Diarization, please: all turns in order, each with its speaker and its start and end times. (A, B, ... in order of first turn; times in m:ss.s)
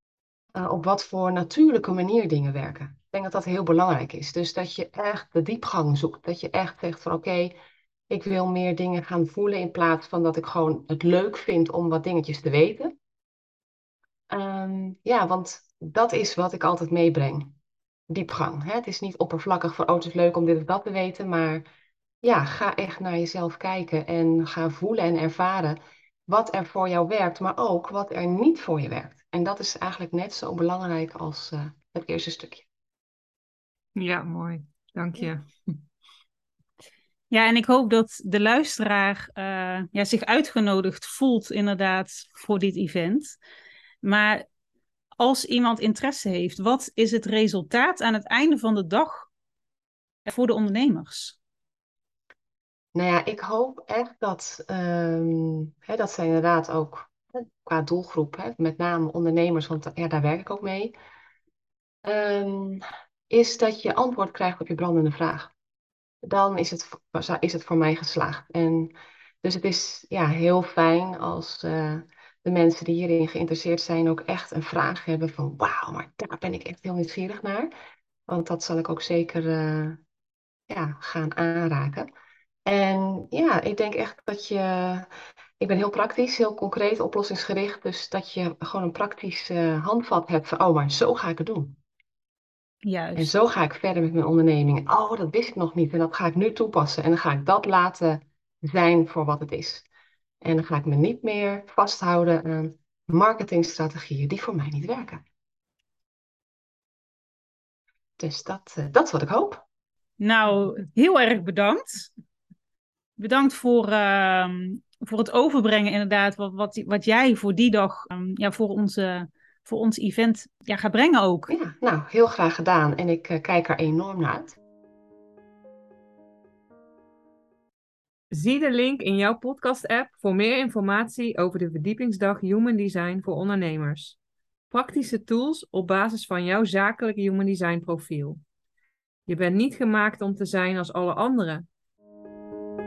0:00.5-0:07.5 A
0:08.1-0:12.9 A
0:14.3-0:17.5 A
0:18.1-0:21.6 A
0:22.2-0:32.7 A
0:34.0-0:35.4 B
0:37.3-0:43.4 C
0:44.0-0:44.4 C
0:45.2-0:49.3 C
0:50.2-0:51.4 C
0:52.9-1:00.9 A
1:02.0-1:05.5 A
1:06.2-1:17.7 A
1:18.3-1:20.0 A
1:20.7-1:22.1 A
1:22.6-1:25.1 A
1:25.6-1:31.8 A
1:32.8-1:33.3 C
1:33.2-1:39.9 A
1:40.4-1:45.2 A
1:48.2-1:49.6 A
1:50.2-1:52.1 C
1:53.2-2:01.5 C
2:01.5-2:04.6 A
2:08.3-2:14.2 B
2:14.7-2:18.4 B
2:19.3-2:21.7 B